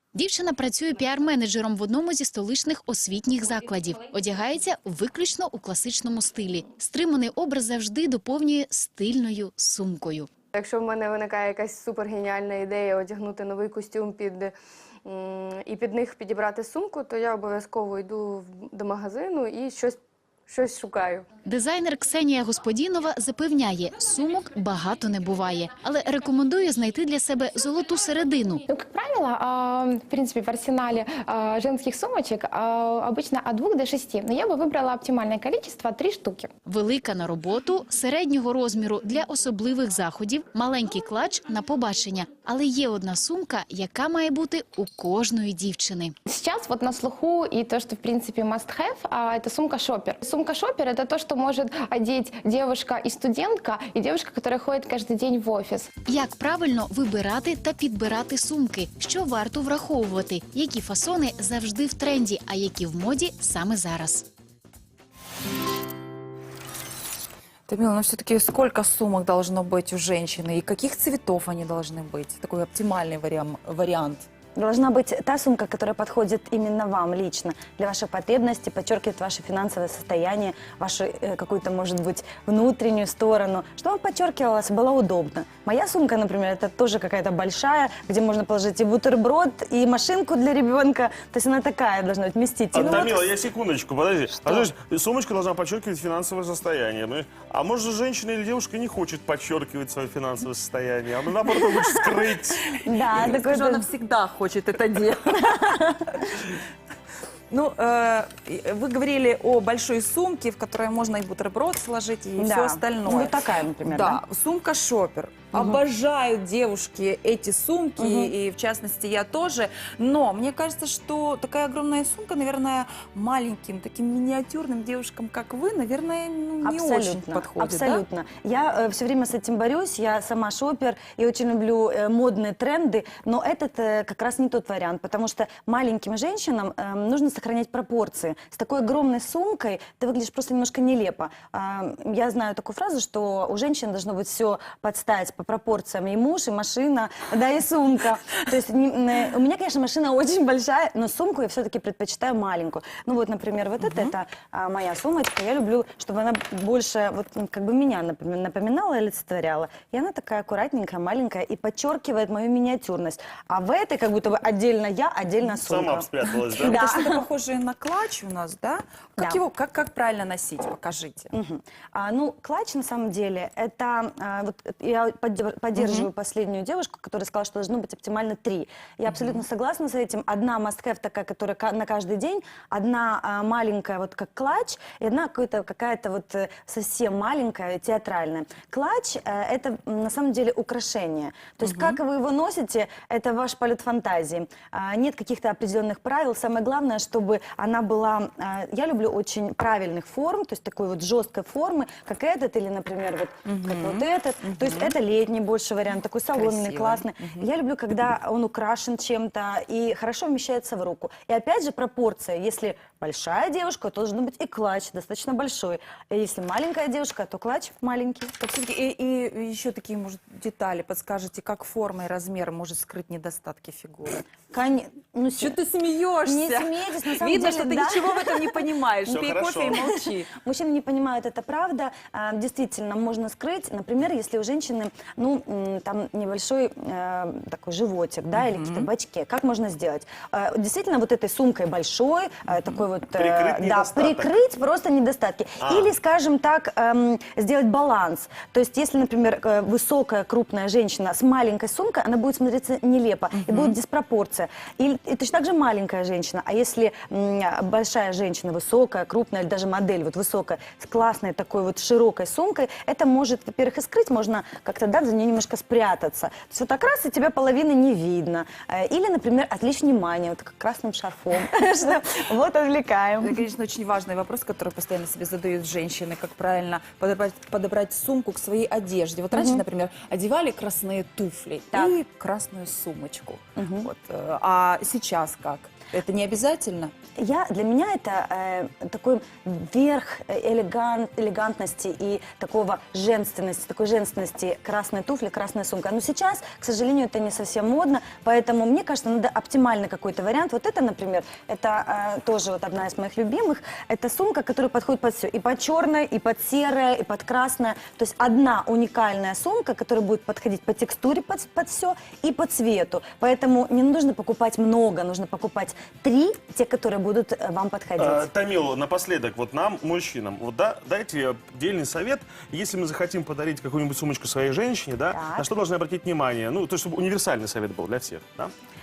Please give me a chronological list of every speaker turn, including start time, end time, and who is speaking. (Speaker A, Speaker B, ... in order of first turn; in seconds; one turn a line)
Speaker A: 0.1-10.3
Speaker B: 10.5-21.3
Speaker A: 21.5-28.6
Speaker C: 28.7-36.5
Speaker A: 36.7-46.1
Speaker C: 46.3-55.9
Speaker A: 56.1-64.3
Speaker D: 67.7-74.3
Speaker E: 74.6-93.3
Speaker F: 92.7-102.7
Speaker E: 94.4-94.7
Speaker E: 102.8-103.9
Speaker D: 103.1-105.9
Speaker E: 105.5-106.2
Speaker D: 107.5-128.0
Speaker E: 112.4-114.2
Speaker E: 115.5-115.8
Speaker E: 118.0-118.3
Speaker E: 126.6-167.2
Speaker F: 165.6-166.8
Speaker D: 166.3-171.3
Speaker E: 169.2-169.4
Speaker E: 171.3-218.3
Speaker D: 175.8-176.1
Speaker D: 179.1-179.4
Speaker D: 191.7-192.0
Speaker D: 203.5-204.9
Speaker D: 206.3-207.4
Speaker D: 218.4-224.2
Speaker E: 224.5-225.6
Speaker D: 225.4-230.3
Speaker E: 226.2-228.6
Speaker F: 229.1-229.8
Speaker E: 229.8-273.4
Speaker D: 238.4-238.9
Speaker F: 243.1-244.3
Speaker F: 245.6-245.9
Speaker D: 253.3-253.8
Speaker D: 273.2-286.9
Speaker E: 279.3-279.6
Speaker E: 283.6-283.9
Speaker E: 287.2-318.3
Speaker F: 318.0-328.5
Speaker E: 325.1-325.5